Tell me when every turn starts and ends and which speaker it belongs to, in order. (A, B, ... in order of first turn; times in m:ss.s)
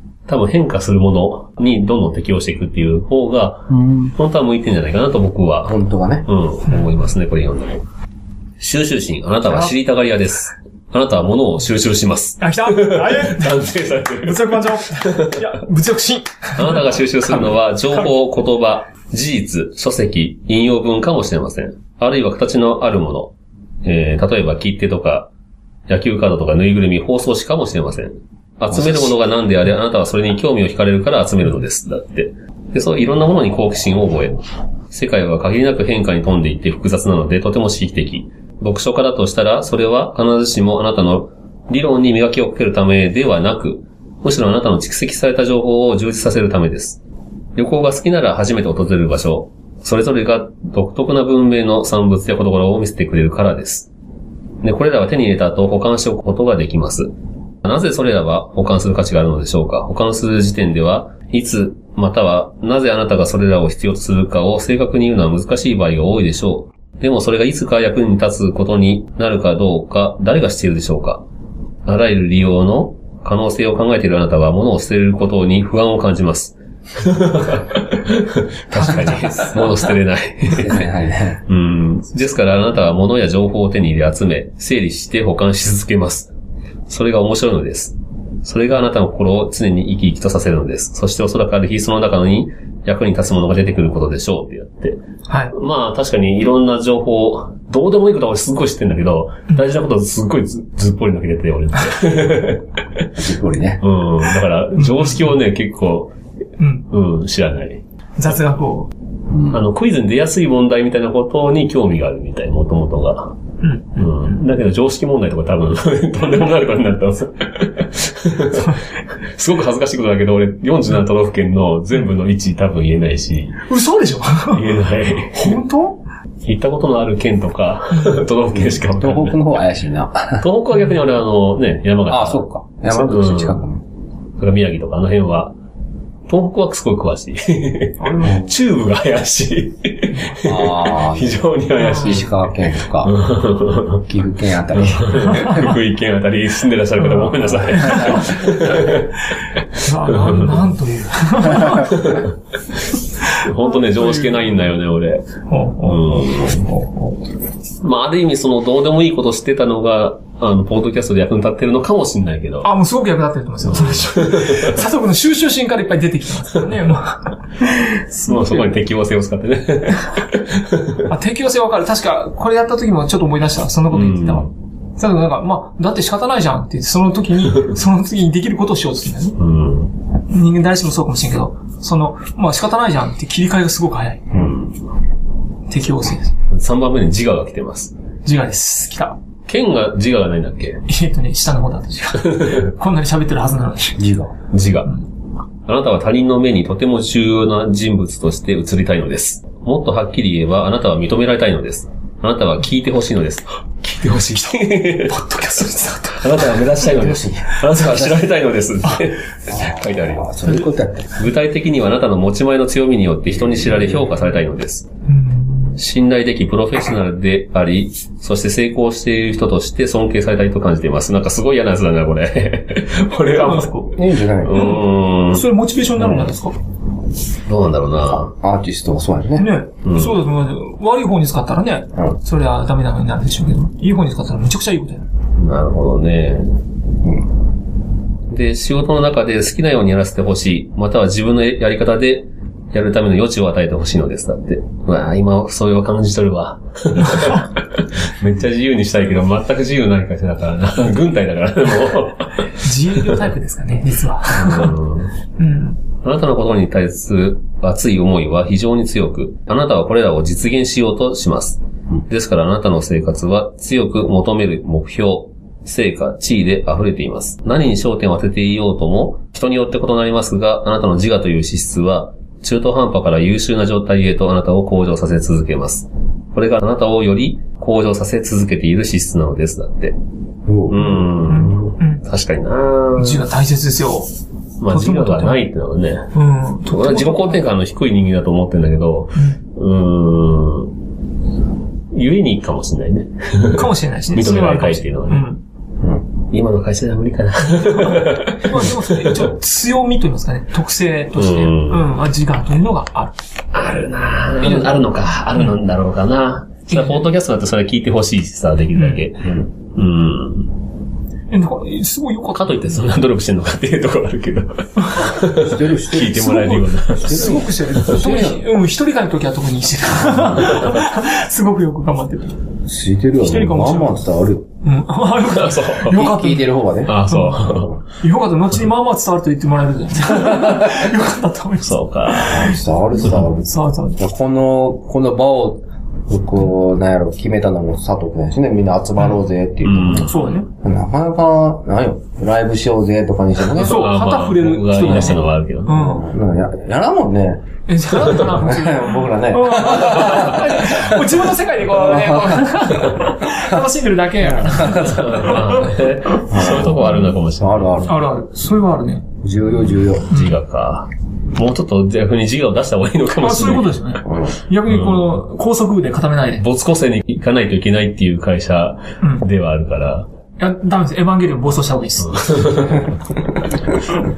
0:00.3-0:05.7 A
0:03.7-0:04.1 B
0:05.7-0:06.3 B
0:06.3-0:07.8 A
0:08.6-0:15.4 A
0:12.4-0:13.6 C
0:14.2-0:18.0 C
0:16.6-0:23.3 A
0:23.8-0:25.3 A
0:25.9-0:47.0 A
0:47.6-0:53.9 A
0:54.6-0:57.1 A
0:57.6-1:11.2 A
1:11.9-1:20.9 A
1:18.8-1:19.4 C
1:20.5-1:21.4 B
1:21.5-1:26.3 A
1:26.9-1:35.0 A
1:35.3-1:35.5 C
1:35.5-1:43.0 A
1:43.2-1:43.8 B
1:43.8-1:46.1 A
1:44.8-1:45.2 C
1:46.6-1:46.9 C
1:46.9-1:47.8 A
1:48.2-1:48.9 C
1:49.3-1:49.6 B
1:49.5-1:53.4 A
1:53.6-1:54.0 C
1:54.0-1:58.8 A
1:59.4-2:03.6 A
2:03.7-2:04.8 C
2:04.5-2:05.6 A
2:05.3-2:06.0 C
2:06.4-2:09.4 A
2:08.5-2:10.4 B
2:10.4-2:13.7 A
2:12.1-2:13.8 B
2:14.4-2:15.5 A
2:16.3-2:22.5 A
2:18.0-2:18.5 C
2:18.2-2:18.5 B
2:20.4-2:23.2 B
2:21.8-2:22.2 C
2:23.0-2:24.0 A
2:24.1-2:25.7 B
2:24.8-2:29.2 A
2:25.3-2:25.7 C
2:27.0-2:28.5 C
2:27.8-2:28.2 B
2:29.8-2:32.1 C
2:30.1-2:30.6 A
2:31.6-2:32.3 A
2:33.4-2:35.3 A
2:33.4-2:34.4 C
2:35.5-2:37.2 C
2:35.8-2:36.6 A
2:37.8-2:42.7 A
2:42.6-2:48.7 C
2:43.6-2:44.8 A
2:48.2-2:51.1 A
2:51.1-2:59.4 C
2:53.9-2:54.5 A
2:59.4-2:59.9 A
3:00.3-3:04.3 C
3:04.3-3:04.8 A
3:05.7-3:06.3 C
3:06.5-3:07.9 A
3:08.3-3:09.2 C
3:09.5-3:10.8 A
3:10.9-3:14.0 C
3:14.0-3:14.3 B
3:14.5-3:14.9 A
3:15.7-3:25.2 A
3:24.0-3:26.9 C
3:26.2-3:30.4 A
3:27.8-3:28.2 B
3:29.5-3:31.2 B
3:31.2-3:34.9 A
3:35.1-3:35.8 C
3:35.8-3:45.5 A
3:43.2-3:44.0 C
3:44.0-3:44.8 B
3:44.5-3:46.6 C
3:46.0-3:46.3 A
3:47.5-3:48.3 A
3:48.3-3:49.5 B
3:49.4-3:55.1 C
3:49.8-3:50.2 A
3:55.4-3:56.6 A
3:58.3-4:12.5 A
4:12.6-4:14.8 C
4:14.3-4:15.1 A
4:15.4-4:15.8 C
4:16.0-4:40.0 A
4:40.5-4:40.8 B
4:40.7-4:43.2 A
4:40.8-4:42.0 C
4:43.0-4:44.1 C
4:44.6-4:46.1 A
4:44.7-4:45.4 C
4:46.1-4:47.4 C
4:46.7-4:50.7 A
4:51.9-4:55.3 A
4:53.5-4:55.4 C
4:56.3-4:59.3 A
4:57.6-5:03.2 C
5:01.2-5:01.9 A
5:03.5-5:10.5 A
5:04.4-5:04.8 C
5:06.7-5:07.0 C
5:08.8-5:09.0 C
5:09.2-5:09.5 B
5:11.3-5:12.8 C
5:12.3-5:18.2 A
5:14.8-5:15.1 C
5:15.2-5:16.3 B
5:16.0-5:22.4 C
5:17.0-5:18.4 B
5:22.7-5:24.5 B
5:23.2-5:24.0 C
5:24.6-5:32.6 C
5:25.2-5:26.1 A
5:25.9-5:27.8 B
5:26.8-5:27.8 A
5:30.3-5:30.7 A
5:31.6-5:32.5 A
5:32.2-5:43.9 B
5:33.4-5:34.0 C
5:39.6-5:40.2 A
5:40.0-5:40.5 C
5:43.6-5:46.0 A
5:43.6-5:46.1 C
5:45.7-5:47.4 B
5:47.7-5:55.8 C
5:48.1-5:50.9 B
5:51.6-5:52.7 B
5:53.3-5:53.6 B
5:54.2-5:55.3 B
5:54.7-5:57.9 A
5:56.3-5:58.0 B
5:57.9-5:59.1 C
5:59.2-6:00.2 B
6:00.0-6:03.9 A
6:03.2-6:06.4 C
6:04.1-6:04.3 B
6:04.7-6:05.1 A
6:06.4-6:10.1 A
6:10.4-6:12.6 C
6:12.1-6:12.9 A